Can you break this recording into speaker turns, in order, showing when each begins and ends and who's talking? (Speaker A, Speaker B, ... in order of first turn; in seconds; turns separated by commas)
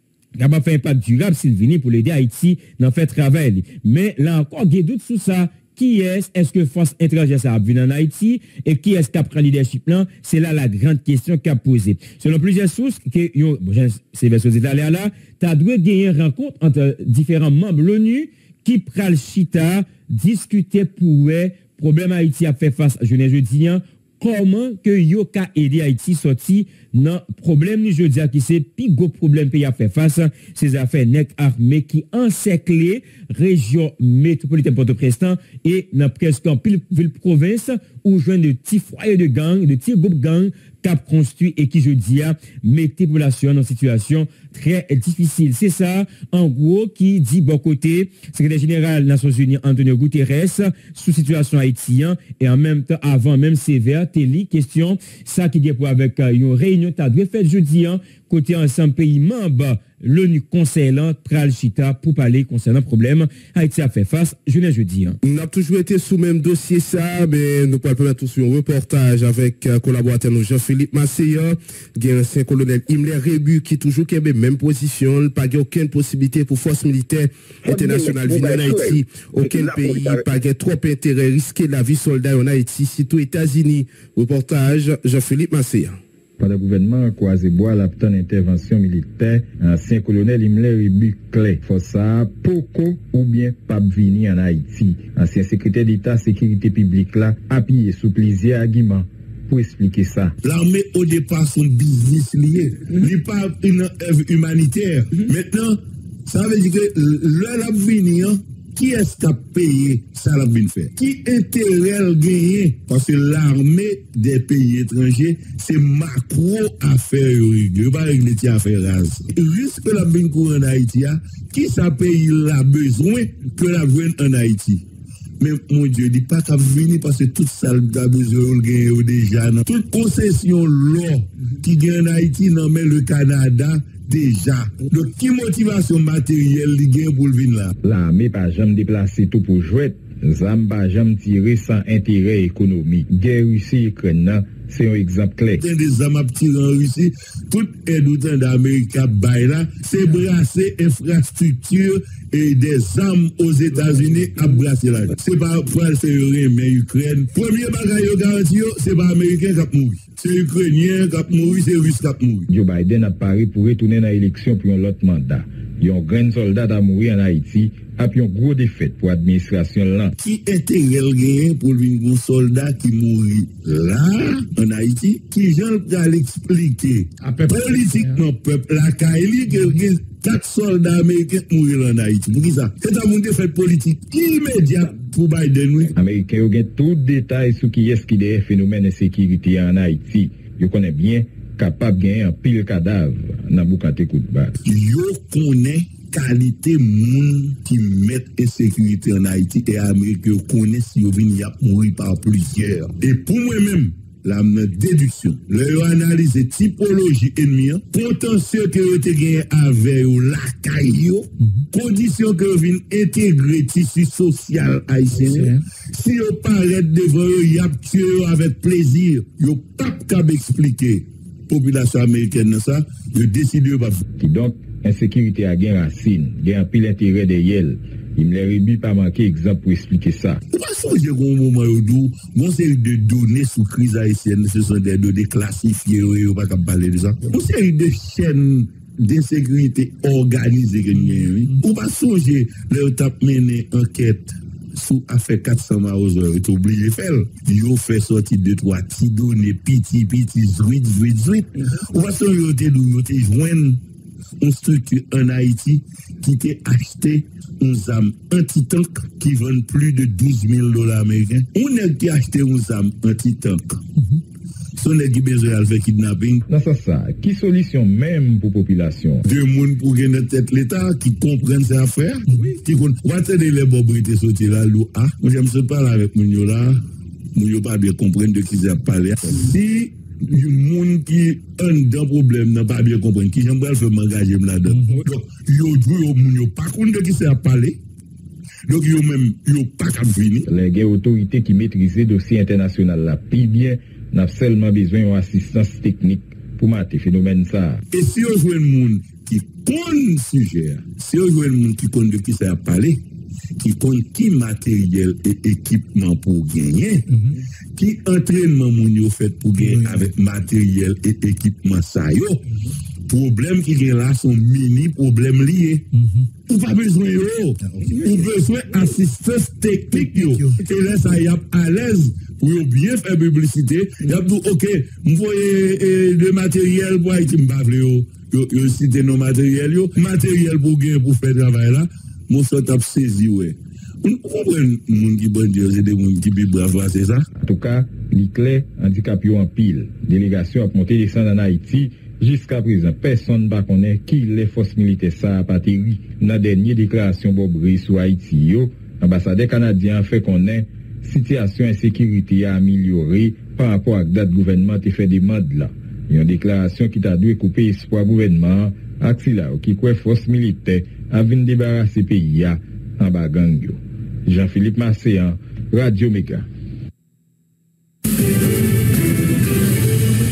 Speaker A: 0.4-65.2, Speaker B: 65.2-86.0, Speaker C: 86.4-100.4, Speaker D: 100.4-124.8, Speaker D: 125.4-137.7, Speaker C: 137.8-145.6, Speaker D: 145.6-162.5, Speaker C: 162.5-170.2, Speaker D: 170.2-185.9, Speaker C: 186.0-194.6, Speaker D: 194.6-224.0, Speaker C: 224.2-230.4, Speaker D: 230.5-253.8, Speaker D: 254.4-263.8, Speaker D: 264.8-266.4, Speaker C: 266.5-269.2, Speaker D: 269.2-276.8, Speaker D: 277.4-287.8, Speaker D: 288.7-290.5, Speaker C: 290.5-297.8, Speaker D: 297.9-303.0, Speaker D: 303.6-312.5, Speaker D: 313.1-315.9, Speaker D: 316.5-337.3, Speaker C: 337.4-366.5